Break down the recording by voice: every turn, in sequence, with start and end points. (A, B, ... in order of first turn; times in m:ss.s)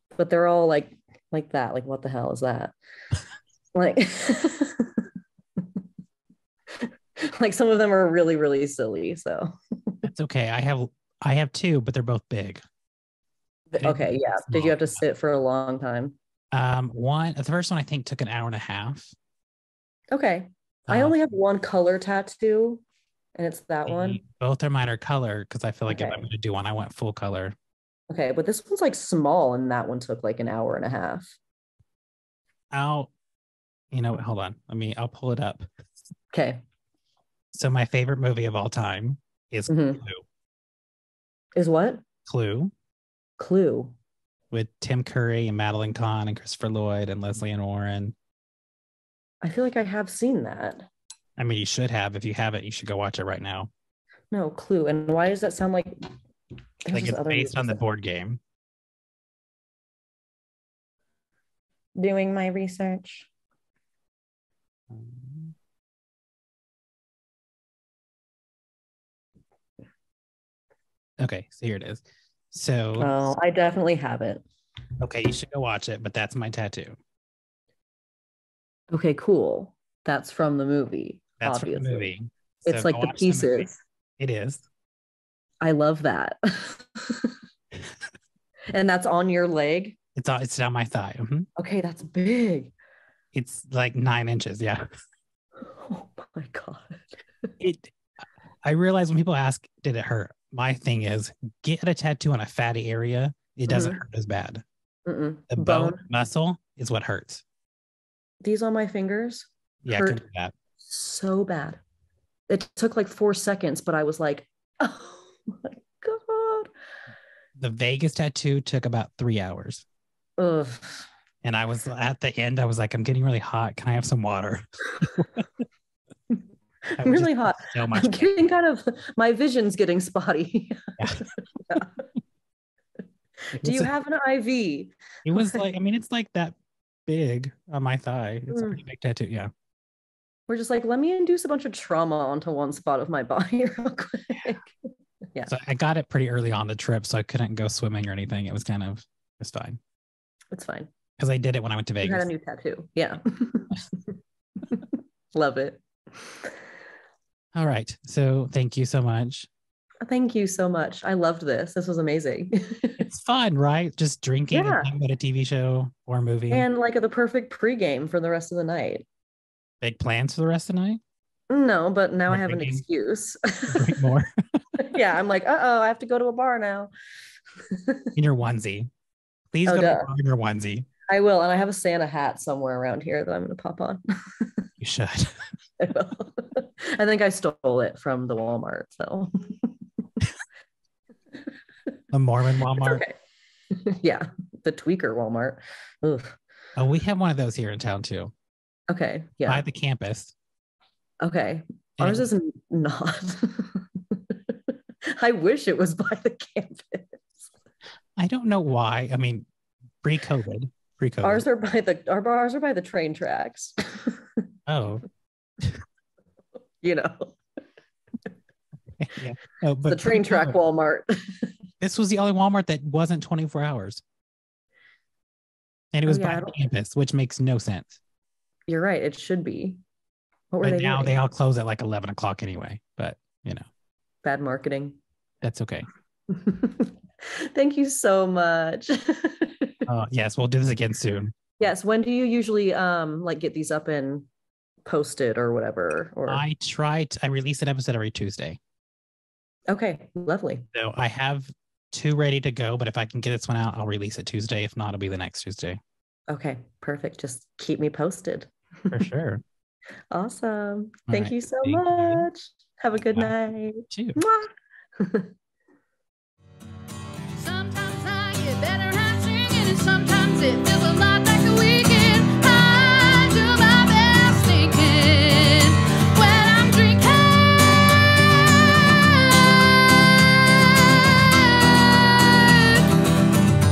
0:00.2-0:02.7 A
0:03.8-0:05.0 A
0:07.2-0:10.0 A
0:10.0-0:12.6 B
0:13.7-0:16.2 A
0:13.8-0:14.9 B
0:16.5-0:19.2 B
0:20.1-0:22.8 A
0:20.9-0:21.2 B
0:23.4-0:24.2 A
0:23.9-0:27.6 B
0:25.9-0:26.3 A
0:28.1-0:31.4 A
0:32.7-0:33.1 B
0:33.9-0:35.7 B
0:36.3-0:36.6 A
0:37.5-0:40.2 B
0:39.7-0:40.0 A
0:41.6-0:42.0 A
0:42.3-0:42.7 B
0:43.4-0:44.0 A
0:44.5-0:48.2 B
0:49.4-0:50.9 A
0:51.4-0:53.7 B
0:54.3-0:56.0 A
0:56.8-0:57.8 A
0:56.9-0:58.4 B
1:02.0-1:03.3 A
1:04.9-1:05.5 B
1:11.2-1:13.1 B
1:13.0-1:14.4 A
1:15.0-1:17.0 B
1:18.9-1:22.1 A
1:21.4-1:24.6 B
1:22.6-1:23.8 A
1:25.6-1:27.3 A
1:28.7-1:30.0 A
1:30.2-1:31.5 B
1:31.6-1:32.7 A
1:33.3-1:34.8 B
1:35.6-1:37.5 A
1:37.6-1:37.9 B
1:38.6-1:44.6 B
1:43.7-1:44.0 A
1:45.1-1:46.0 A
1:45.5-1:47.4 B
1:48.4-1:50.2 A
1:49.8-1:50.5 B
1:50.8-1:51.8 A
1:52.5-1:56.7 A
1:57.6-1:59.8 B
2:00.4-2:01.1 A
2:01.4-2:05.4 B
2:06.9-2:12.0 A
2:07.0-2:08.3 B
2:11.0-2:11.8 B
2:13.5-2:15.6 A
2:13.6-2:13.9 B
2:15.2-2:19.5 B
2:18.5-2:18.8 A
2:20.5-2:24.8 A
2:25.5-2:29.8 B
2:30.5-2:30.9 A
2:31.2-2:32.3 B
2:32.0-2:34.1 A
2:34.7-2:36.5 A
2:37.5-2:39.5 B
2:40.0-2:43.1 A
2:43.0-2:46.7 B
2:44.5-2:44.9 A
2:46.5-2:49.0 A
2:49.8-2:51.0 B
2:51.5-2:54.0 A
2:52.3-2:52.8 B
2:53.7-2:54.3 B
2:54.8-2:56.9 A
2:57.7-2:58.1 A
2:58.2-2:58.9 B
2:59.5-3:00.9 B
2:59.7-3:00.1 A
3:01.1-3:04.5 A
3:04.8-3:05.5 B
3:05.8-3:09.7 A
3:12.1-3:13.0 B
3:12.8-3:13.2 A
3:13.7-3:16.4 A
3:16.8-3:18.3 B
3:18.9-3:19.6 A
3:19.5-3:20.3 B
3:21.2-3:24.5 A
3:22.0-3:22.3 B
3:25.1-3:27.4 A
3:28.2-3:29.5 B
3:30.0-3:31.4 B
3:31.2-3:34.2 A
3:34.7-3:35.1 B
3:36.8-3:37.4 A
3:39.0-3:40.6 B
3:39.9-3:41.5 A
3:41.8-3:44.0 B
3:45.9-3:48.0 B
3:46.1-3:46.6 A
3:48.7-3:49.8 A
3:50.5-3:51.2 A
3:50.6-3:53.7 B
3:54.2-3:55.0 A
3:55.4-3:55.9 B
3:56.3-3:59.8 A
3:59.9-4:01.3 B
4:01.6-4:04.3 A
4:04.9-4:06.4 A
4:06.3-4:08.6 B
4:09.7-4:10.7 A
4:10.7-4:15.8 B
4:16.3-4:19.0 A
4:18.9-4:19.4 B
4:20.1-4:25.3 A
4:21.1-4:22.3 B
4:23.0-4:23.3 B
4:23.9-4:24.2 B
4:27.4-4:42.8 C